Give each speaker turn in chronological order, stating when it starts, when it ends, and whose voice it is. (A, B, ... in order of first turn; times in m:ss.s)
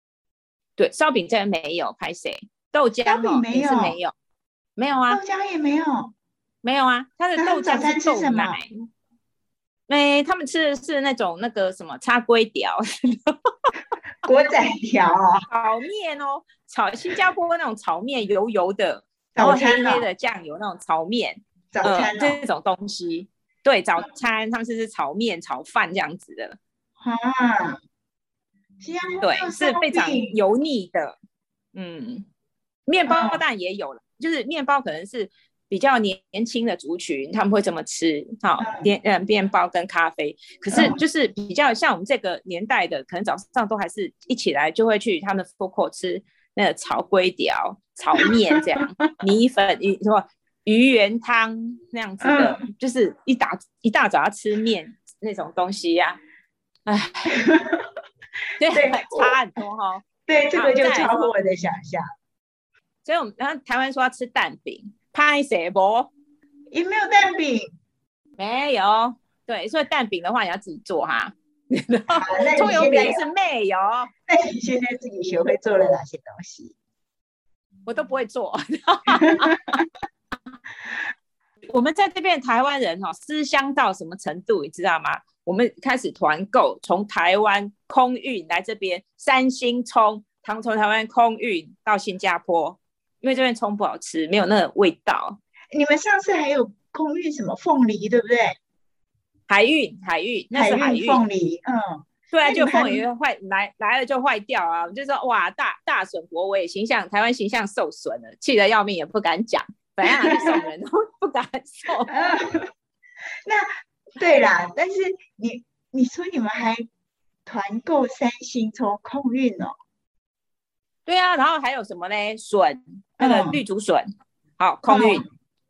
0:00.8-0:04.1 A
0:03.0-0:04.0 B
0:04.8-0:05.2 A
0:05.1-0:06.1 B
0:06.6-0:08.7 A
0:07.4-0:08.6 B
0:09.9-0:13.7 A
0:14.2-0:15.4 B
0:15.5-0:26.6 A
0:19.4-0:20.1 B
0:21.7-0:22.4 B
0:27.0-0:27.8 B
0:28.8-0:30.4 B
0:29.2-0:31.2 A
0:31.8-0:32.3 A
0:32.9-0:56.2 A
0:33.1-0:33.4 B
0:38.6-0:38.9 B
0:52.2-0:52.6 B
0:56.9-0:57.4 A
0:57.4-0:57.8 B
0:58.6-1:01.3 A
0:58.7-0:59.4 B
1:00.3-1:02.0 B
1:03.0-1:06.1 A
1:06.7-1:07.7 B
1:08.4-1:14.1 A
1:12.2-1:13.2 B
1:14.3-1:16.8 B
1:17.9-1:19.8 A
1:21.7-1:35.4 A
1:35.7-1:38.6 B
1:39.5-1:41.2 A
1:40.5-1:43.0 B
1:42.3-1:52.1 A
1:50.2-1:50.6 B
1:52.1-1:52.7 B
1:53.5-1:56.8 B
1:57.5-1:59.7 B
2:01.1-2:04.1 A
2:03.2-2:03.6 B
2:04.6-2:05.2 A
2:04.9-2:05.2 B